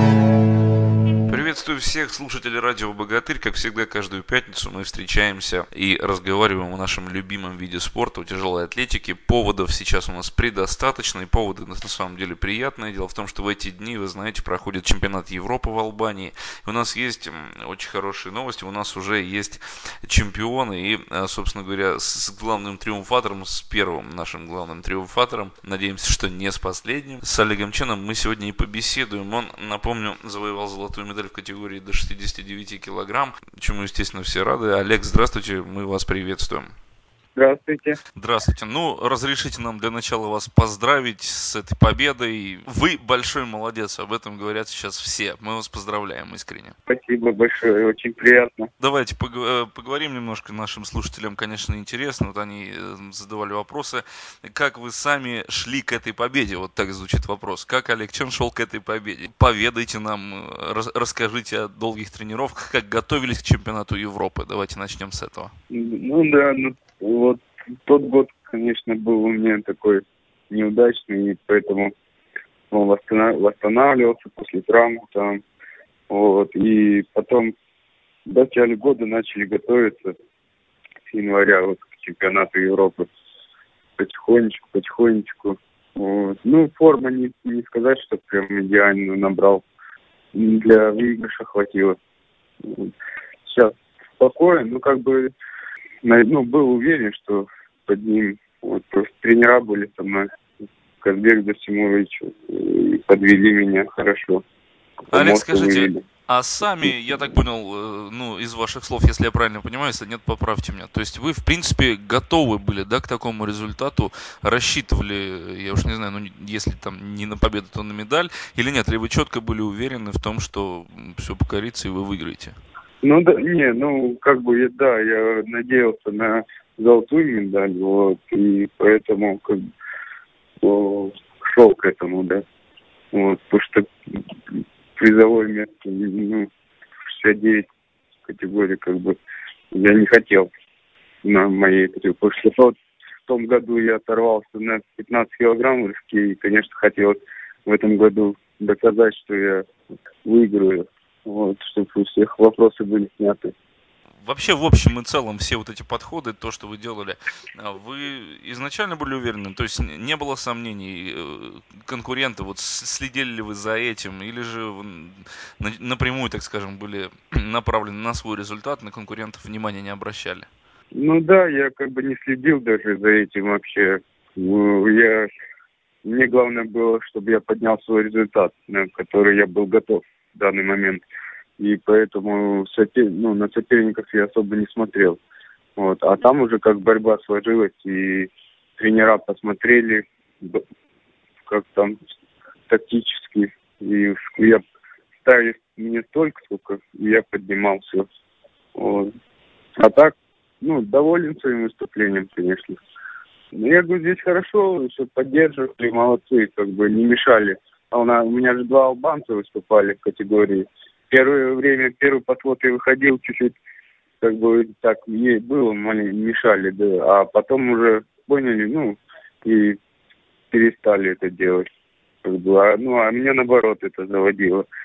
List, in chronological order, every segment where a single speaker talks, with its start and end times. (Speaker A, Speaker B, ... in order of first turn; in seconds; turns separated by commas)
Speaker A: 1.3-36.7, Speaker B: 37.3-38.0, Speaker A: 38.1-46.7, Speaker B: 46.9-48.7, Speaker A: 48.8-65.5, Speaker B: 65.7-71.9, Speaker B: 72.7-75.4, Speaker B: 76.1-77.5, Speaker B: 78.2-80.1, Speaker B: 81.1-83.1, Speaker B: 84.0-89.6, Speaker B: 90.3-92.0, Speaker B: 92.6-92.9, Speaker B: 93.4-95.3, Speaker B: 96.0-100.3, Speaker B: 101.0-104.4, Speaker B: 105.1-106.0, Speaker A: 105.1-122.5, Speaker B: 123.0-129.6, Speaker B: 130.6-132.4, Speaker B: 133.1-133.9, Speaker B: 134.9-136.5, Speaker B: 137.1-137.6, Speaker B: 138.2-139.2, Speaker B: 139.7-140.5, Speaker B: 141.2-142.7, Speaker B: 143.2-149.7, Speaker B: 150.2-153.5, Speaker A: 154.2-170.5, Speaker B: 170.9-175.3, Speaker B: 176.0-181.0, Speaker B: 181.6-185.2, Speaker B: 185.8-190.6, Speaker B: 191.4-192.0, Speaker B: 192.7-194.6, Speaker B: 195.2-198.1, Speaker B: 198.7-199.1, Speaker B: 199.8-202.8, Speaker B: 203.5-213.6, Speaker B: 214.2-219.8, Speaker B: 220.5-221.7, Speaker B: 222.2-224.7